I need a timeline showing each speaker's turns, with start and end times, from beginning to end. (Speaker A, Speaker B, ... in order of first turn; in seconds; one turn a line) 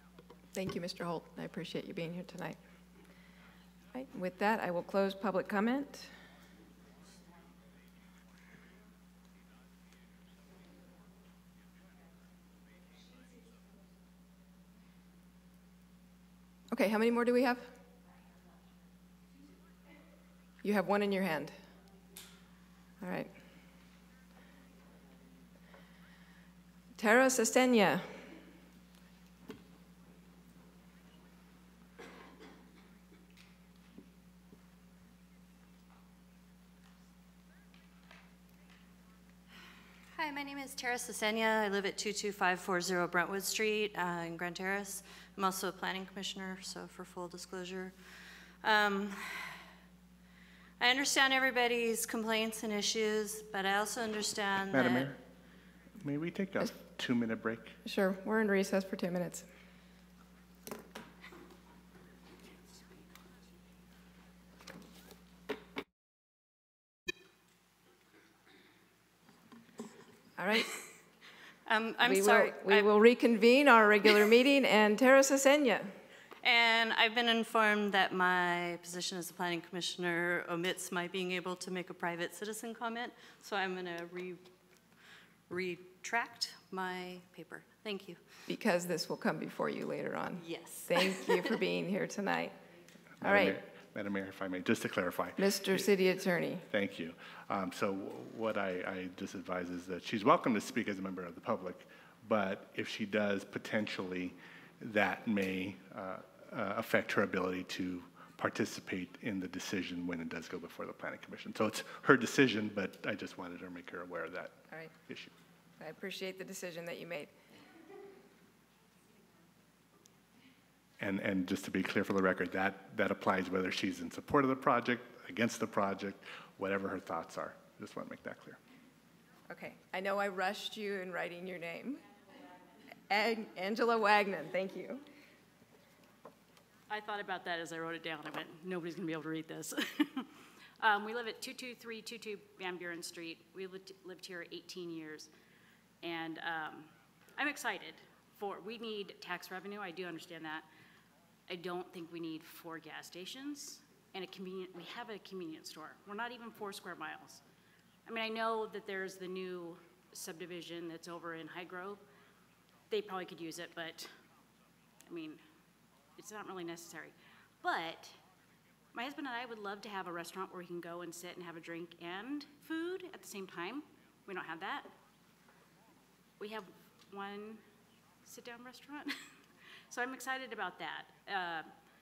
Speaker A: 0.6-2.6
Speaker A: 3.9-6.1
Speaker A: 16.7-17.7
Speaker A: 20.6-21.6
Speaker A: 23.0-23.3
Speaker A: 27.0-28.2
Speaker B: 40.1-47.9
Speaker B: 48.6-49.3
Speaker B: 50.8-55.1
Speaker C: 54.7-55.1
Speaker C: 56.0-57.8
Speaker A: 57.8-59.5
Speaker A: 70.4-70.7
Speaker B: 71.7-72.9
Speaker A: 72.0-75.9
Speaker B: 76.4-84.4
Speaker B: 85.5-88.2
Speaker A: 88.5-92.5
Speaker B: 90.4-91.4
Speaker C: 93.2-95.4
Speaker A: 93.2-93.6
Speaker A: 95.4-96.6
Speaker C: 96.7-115.3
Speaker A: 115.8-117.3
Speaker C: 121.0-128.6
Speaker A: 129.5-132.0
Speaker A: 133.1-135.0
Speaker D: 136.9-140.3
Speaker D: 140.8-145.3
Speaker D: 146.0-150.6
Speaker D: 151.5-157.4
Speaker D: 158.1-162.0
Speaker D: 162.9-164.1
Speaker D: 165.1-165.4
Speaker D: 166.2-168.2
Speaker D: 168.9-174.9
Speaker D: 176.4-177.6
Speaker D: 178.2-179.1
Speaker D: 179.9-181.7